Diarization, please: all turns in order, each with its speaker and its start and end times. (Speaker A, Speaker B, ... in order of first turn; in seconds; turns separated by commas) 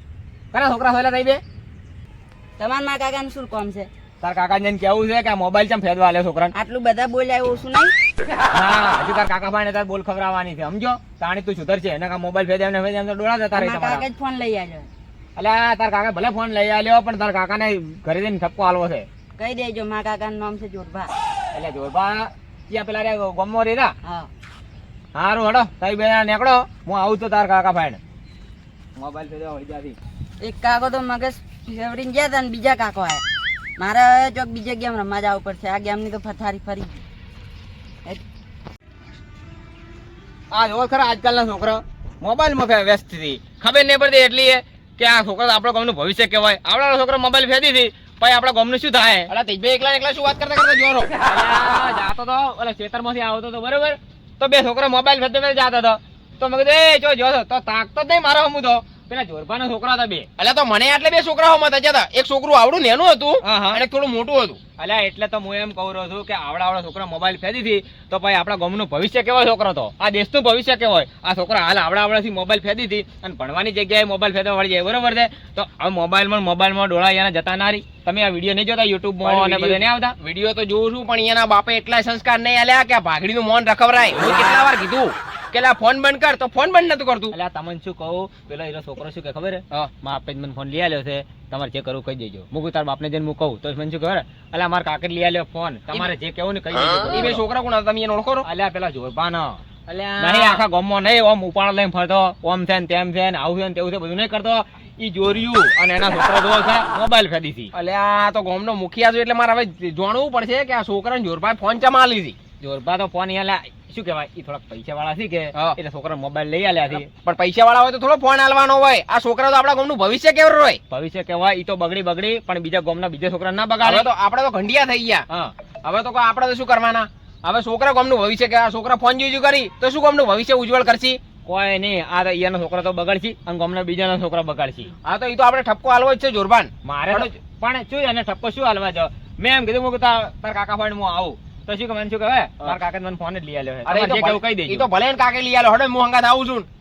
Speaker A: 0.5-1.4, Speaker B: 2.6-3.9, Speaker A: 4.2-6.5, Speaker B: 6.5-7.9, Speaker A: 8.5-14.1, Speaker B: 13.5-14.9, Speaker A: 15.4-19.1, Speaker B: 19.4-21.1, Speaker A: 21.5-23.9, Speaker A: 25.1-28.0, Speaker A: 29.0-30.0, Speaker B: 30.4-33.2, Speaker B: 33.8-37.0, Speaker A: 40.5-49.3, Speaker C: 49.3-51.1, Speaker A: 51.2-60.3, Speaker C: 60.4-64.6, Speaker A: 63.4-63.8, Speaker A: 64.8-80.2, Speaker C: 79.2-87.3, Speaker A: 84.1-84.7, Speaker A: 87.3-97.4, Speaker C: 96.9-98.5, Speaker A: 98.4-99.6, Speaker C: 99.9-100.6, Speaker A: 100.2-107.7, Speaker C: 107.7-112.4, Speaker A: 112.6-117.1, Speaker C: 116.9-120.8, Speaker A: 120.9-124.1, Speaker C: 123.8-125.3, Speaker C: 125.8-131.2, Speaker A: 131.4-134.9, Speaker C: 135.0-137.3, Speaker A: 136.8-144.9, Speaker C: 143.8-146.7